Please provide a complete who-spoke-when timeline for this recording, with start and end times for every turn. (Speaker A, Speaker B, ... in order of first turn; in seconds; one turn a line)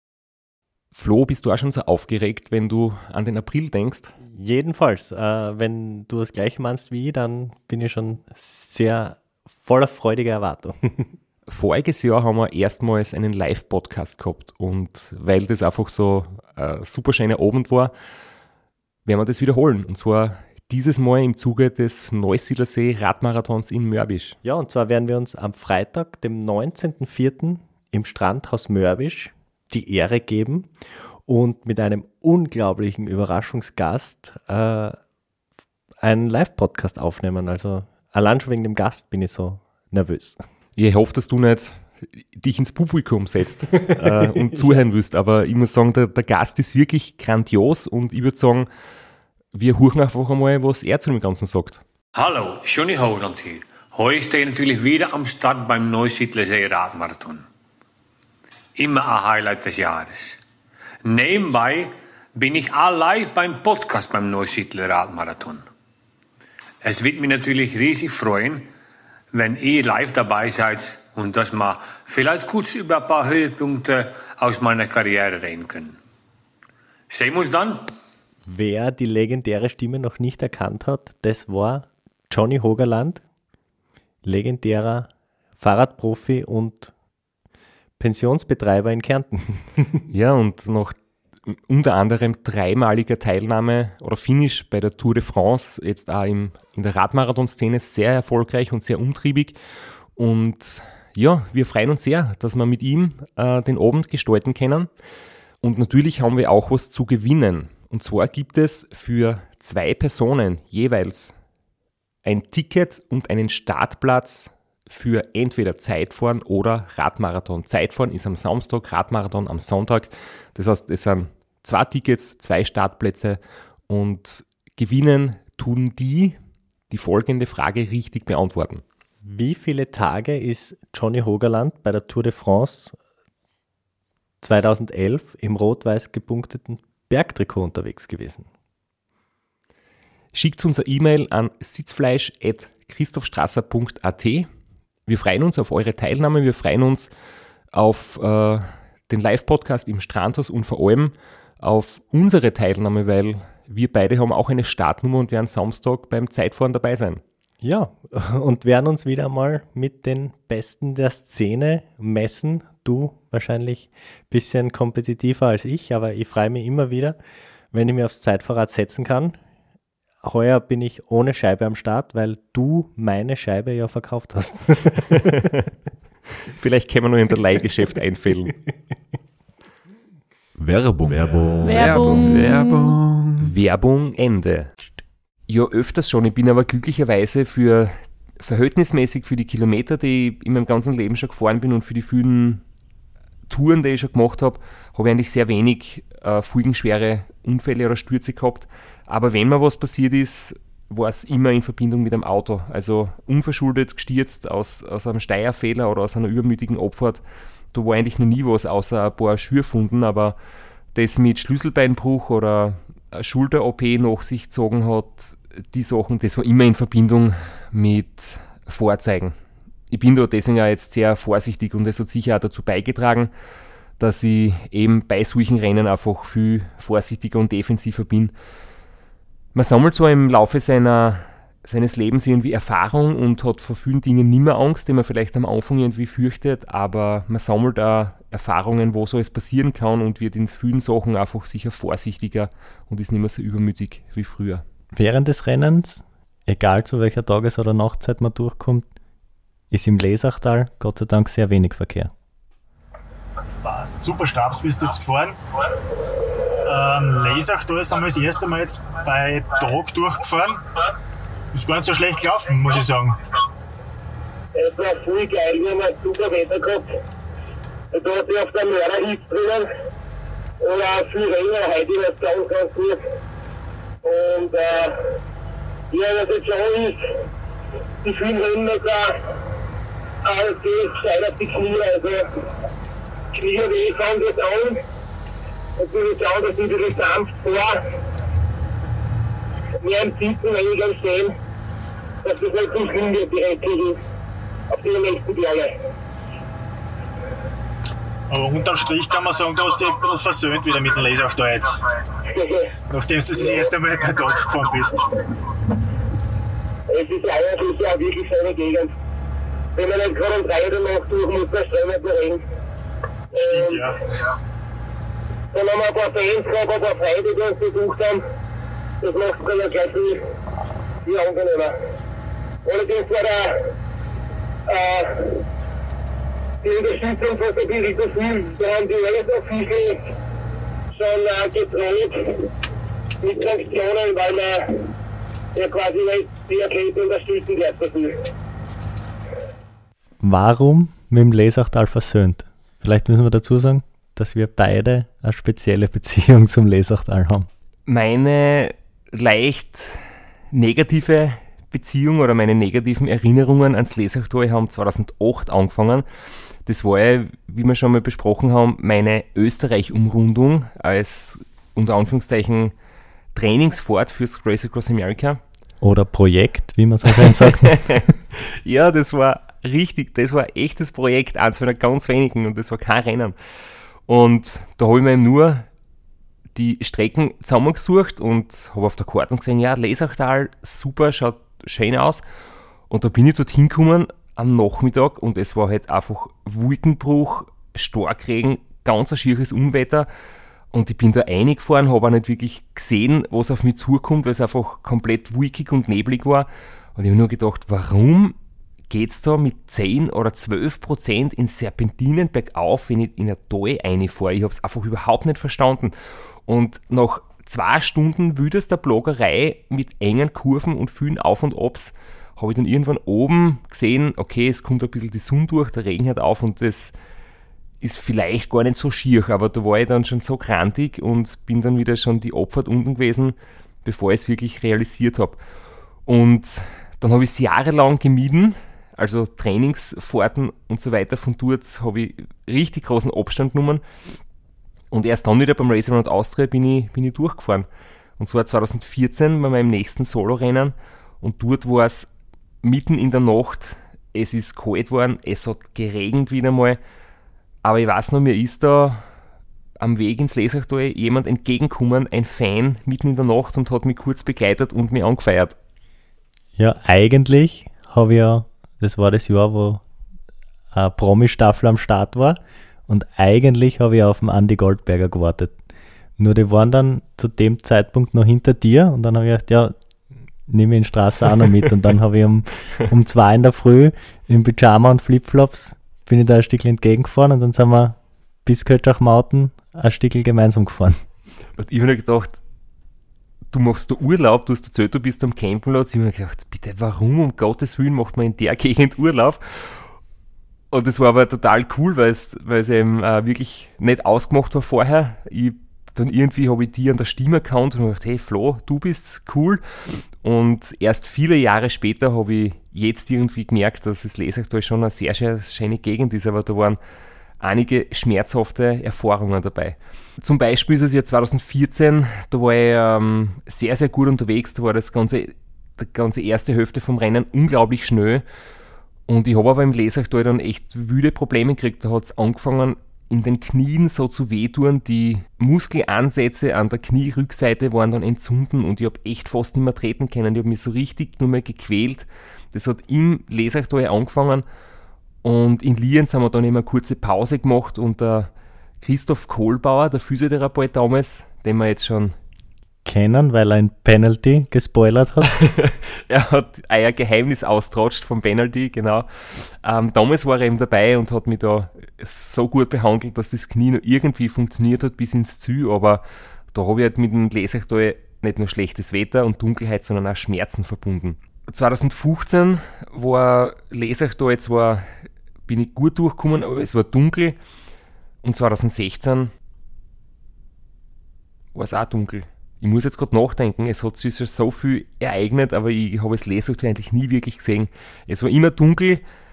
Speaker A: 0.9-4.1
Speaker B: 4.2-11.1
Speaker A: 11.5-17.9
Speaker A: 19.1-24.4
Speaker B: 24.4-30.7
Speaker B: 31.2-35.0
Speaker B: 36.0-40.4
Speaker A: 40.8-41.8
Speaker A: 42.3-48.7
Speaker A: 49.5-51.8
Speaker C: 54.0-54.5
Speaker C: 55.1-55.6
Speaker C: 56.9-57.4
Speaker C: 61.1-61.5
Speaker C: 63.1-63.8
Speaker C: 65.3-65.6
Speaker C: 67.4-68.4
Speaker C: 69.4-70.1
Speaker C: 70.8-71.4
Speaker C: 72.2-73.0
Speaker C: 73.7-74.5
Speaker C: 75.4-75.9
Speaker B: 78.5-83.2
Speaker B: 84.2-86.9
Speaker B: 88.0-90.0
Speaker A: 90.1-90.9
Speaker A: 91.5-99.6
Speaker A: 100.2-104.9
Speaker A: 105.6-111.3
Speaker A: 112.2-126.4
Speaker A: 126.9-128.8
Speaker B: 129.2-132.9
Speaker B: 134.4-138.5
Speaker A: 140.3-144.5
Speaker A: 145.1-147.1
Speaker A: 147.7-157.2
Speaker B: 157.6-167.2
Speaker B: 167.7-169.4
Speaker B: 170.2-175.3
Speaker A: 175.1-175.5
Speaker A: 176.5-178.6
Speaker D: 180.6-182.6
Speaker C: 181.6-183.5
Speaker A: 183.4-184.7
Speaker A: 185.5-192.6
Speaker A: 193.5-207.2
Speaker A: 207.7-210.4
Speaker A: 210.9-219.3
Speaker A: 219.9-223.3
Speaker A: 224.0-228.3
Speaker A: 229.5-244.6
Speaker B: 244.9-248.9
Speaker B: 249.7-252.1
Speaker E: 253.6-255.3
Speaker E: 256.6-260.6
Speaker E: 261.5-263.2
Speaker F: 264.5-266.9
Speaker F: 267.9-269.7
Speaker F: 270.6-273.0
Speaker F: 274.0-275.0
Speaker F: 275.9-277.0
Speaker F: 278.0-279.2
Speaker F: 280.2-282.2
Speaker F: 283.3-284.8
Speaker F: 285.8-287.8
Speaker F: 289.8-291.3
Speaker F: 292.2-294.0
Speaker F: 294.7-295.7
Speaker E: 298.3-301.8
Speaker F: 302.3-302.8
Speaker E: 302.9-305.1
Speaker F: 306.9-308.9
Speaker F: 309.7-312.4
Speaker E: 313.3-314.0
Speaker F: 313.4-313.9
Speaker F: 315.5-318.2
Speaker F: 319.0-320.2
Speaker F: 321.0-321.7
Speaker F: 322.6-323.6
Speaker F: 324.7-325.4
Speaker F: 326.6-330.1
Speaker F: 330.9-332.4
Speaker F: 333.2-334.8
Speaker F: 335.5-338.1
Speaker B: 340.2-347.5
Speaker A: 347.9-356.1
Speaker A: 356.6-362.7
Speaker A: 363.3-365.4
Speaker B: 365.8-368.0
Speaker A: 367.4-373.3
Speaker A: 374.1-375.7
Speaker A: 376.5-382.2
Speaker A: 382.9-390.1
Speaker A: 390.7-398.4
Speaker A: 398.9-405.9
Speaker A: 406.5-416.9
Speaker A: 417.8-425.4
Speaker A: 426.1-433.8
Speaker A: 434.9-437.7
Speaker A: 438.2-442.1
Speaker A: 442.6-446.8
Speaker A: 447.6-449.0
Speaker A: 449.8-455.6
Speaker B: 456.6-459.8
Speaker B: 460.7-465.6
Speaker B: 466.2-469.7
Speaker B: 470.5-481.0
Speaker A: 481.6-482.4
Speaker A: 483.5-489.8
Speaker A: 490.7-499.6
Speaker A: 500.2-506.8
Speaker A: 507.4-518.2
Speaker A: 519.1-534.4
Speaker A: 535.2-538.3
Speaker A: 538.8-542.1
Speaker B: 542.8-545.4
Speaker A: 545.4-567.4
Speaker A: 568.2-569.3
Speaker A: 571.5-579.0